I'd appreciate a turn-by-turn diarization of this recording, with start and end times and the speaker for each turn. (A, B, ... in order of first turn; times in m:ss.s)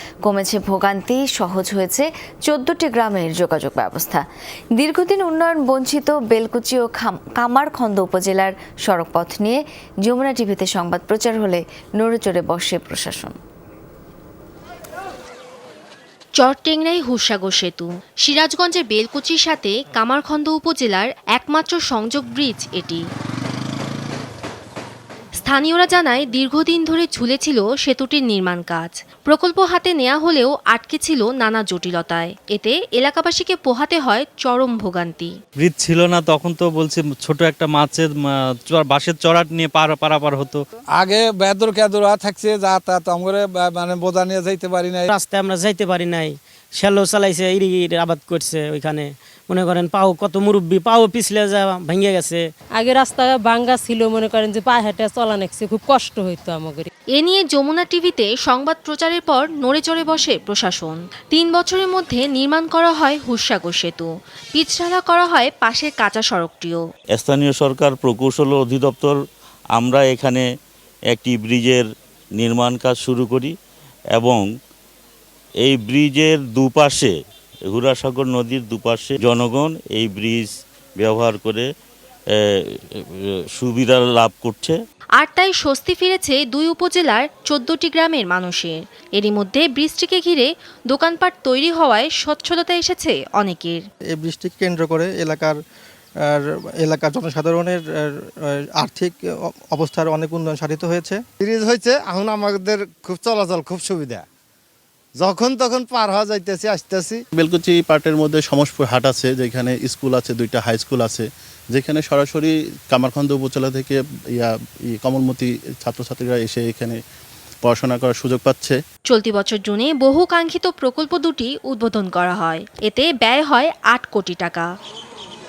0:00.2-0:04.2 A
0:04.8-0:13.4 A
0:16.4-0:23.0 B
0:25.4-0:35.3 B
0:35.6-0:40.6 C
0:40.9-0:45.1 D
0:45.1-0:52.5 E
0:52.7-0:56.9 F
0:57.2-1:06.8 B
1:07.1-1:09.2 G
1:09.7-1:10.4 G
1:11.1-1:13.5 G
1:14.1-1:14.5 G
1:15.6-1:21.7 G
1:22.3-1:24.8 G
1:25.2-1:33.8 B
1:34.1-1:35.6 H
1:36.3-1:41.2 H
1:41.4-1:44.2 I
1:45.2-1:47.2 I
1:47.4-1:57.0 J
1:57.6-1:58.8 J
1:59.1-2:04.7 B